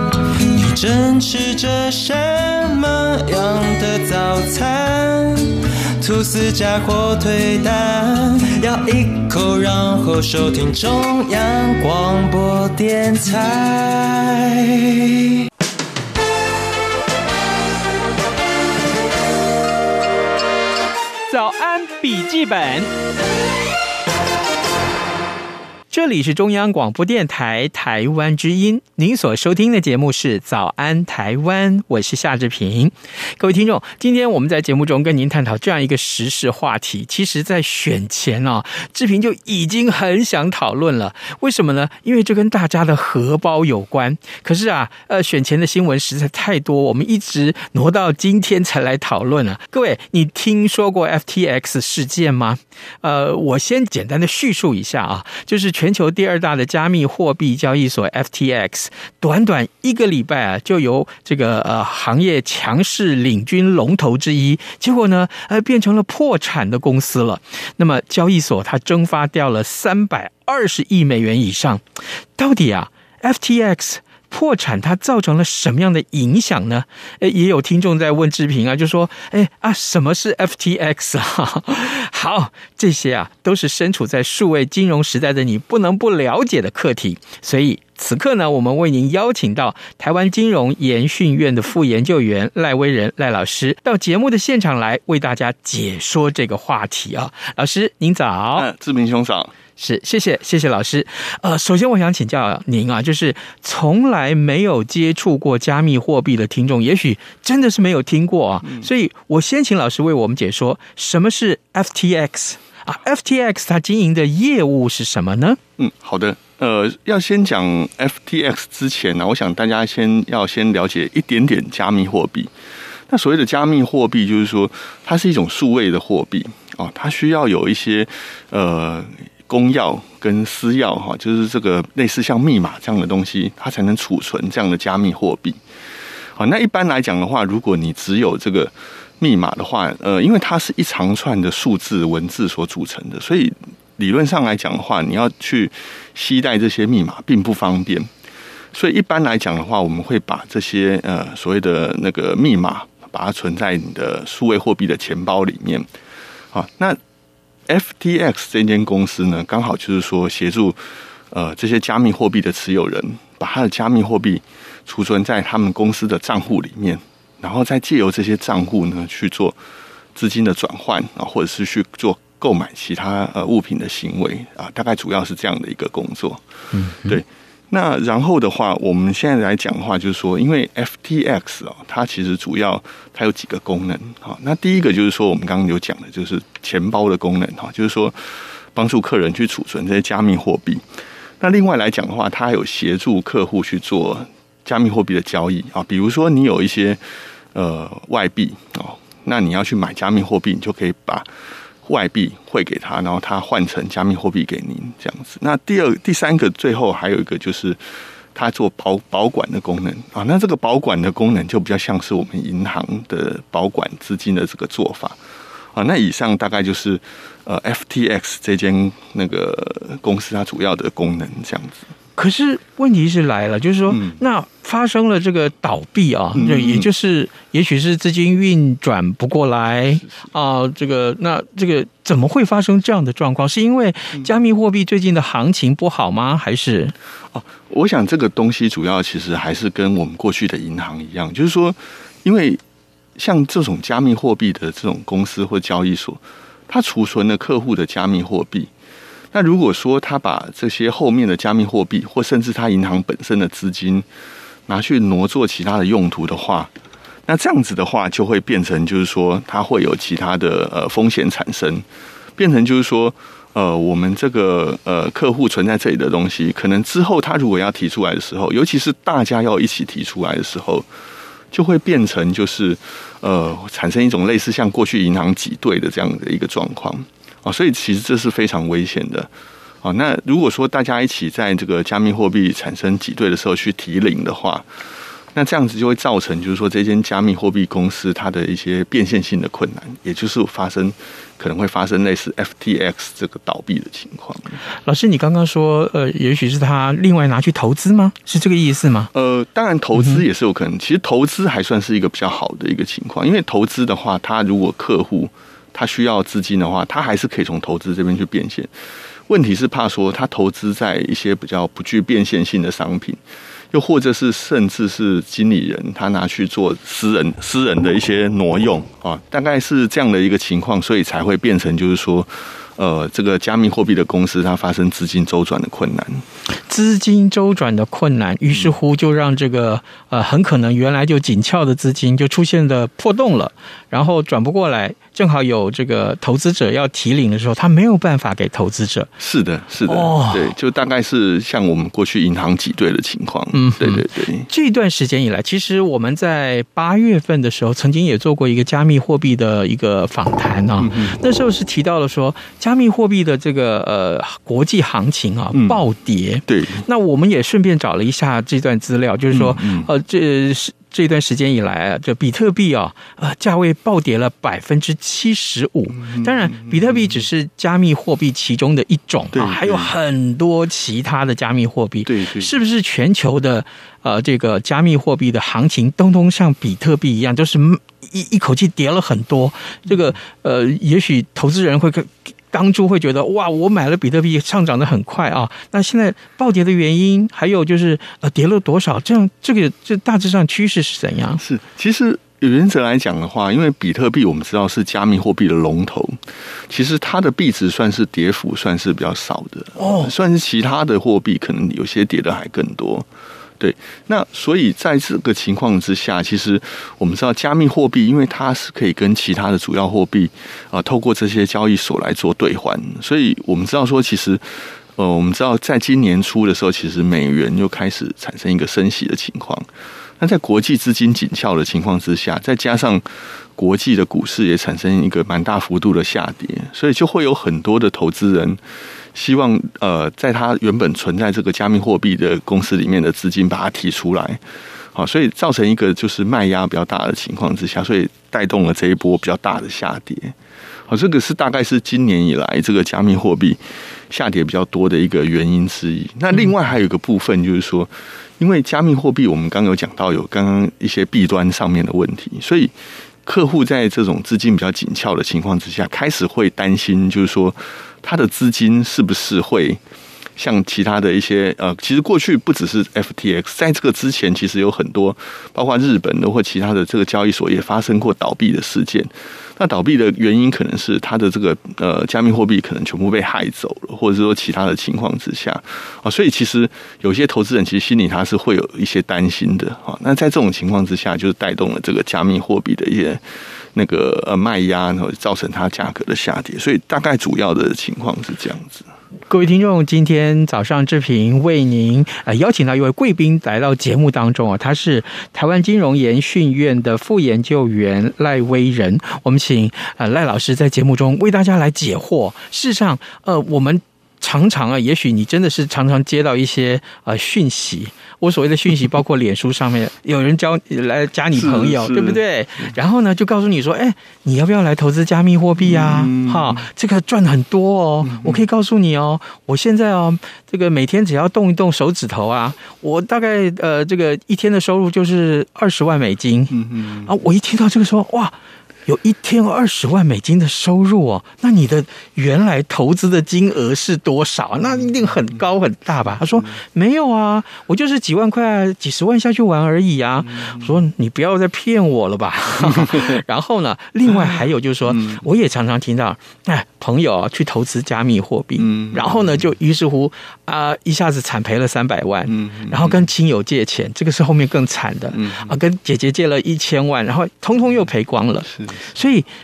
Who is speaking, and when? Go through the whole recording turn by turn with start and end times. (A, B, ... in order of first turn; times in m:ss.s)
0:00.5-0:15.0 A
0:21.3-0:22.9 B
0:25.9-1:11.8 B
1:12.4-1:38.7 B
1:38.5-1:39.5 C
1:39.8-1:55.6 B
1:55.8-2:02.5 C
2:03.1-2:15.6 C
2:16.4-2:28.1 C
2:28.7-2:35.9 C
2:36.5-2:37.0 C
2:37.7-2:40.8 C
2:41.3-2:49.6 C
2:50.1-2:56.4 C
2:56.7-2:57.2 B
2:57.0-3:10.8 C
3:11.4-3:17.0 C
3:17.5-3:21.3 C
3:21.8-3:27.8 C
3:28.3-3:35.2 C
3:35.7-3:41.8 C
3:42.2-3:56.9 B
3:43.9-3:44.2 C
3:46.3-3:46.9 C
3:57.3-4:02.6 C
4:03.2-4:08.7 C
4:09.3-4:14.0 C
4:14.7-4:16.7 C
4:17.3-4:21.8 C
4:22.4-4:30.9 C
4:31.5-4:39.3 C
4:39.8-4:44.7 C
4:45.3-4:54.6 C
4:54.8-4:59.1 B
4:59.1-5:08.7 C
4:59.9-5:00.2 B
5:09.3-5:13.2 C
5:13.7-5:26.2 C
5:26.7-5:39.1 B
5:39.2-5:44.5 C
5:39.8-5:40.5 B
5:43.5-6:31.4 B
5:50.8-5:51.2 C
5:55.5-5:55.8 C
5:56.5-5:56.8 C
5:59.3-5:59.9 C
6:05.9-6:07.2 C
6:09.3-6:09.9 C
6:12.0-6:12.5 C
6:31.4-6:43.1 C
6:39.8-6:40.1 B
6:43.6-6:59.7 C
7:00.2-7:03.0 C
7:03.6-7:08.6 C
7:09.1-7:14.4 C
7:14.9-7:20.4 C
7:20.9-7:32.7 C
7:33.2-7:39.8 C
7:40.4-8:03.2 C
8:03.7-8:08.8 C
8:09.3-8:48.3 B
8:31.3-8:32.2 C
8:35.6-8:36.6 C
8:38.0-8:38.4 C
8:46.5-8:47.1 C
8:48.8-9:19.3 B
9:00.3-9:00.7 C
9:02.6-9:03.1 C
9:04.1-9:04.4 C
9:04.9-9:05.2 C
9:08.6-9:09.4 C
9:12.3-9:13.0 C
9:15.1-9:15.5 C
9:18.5-9:18.9 C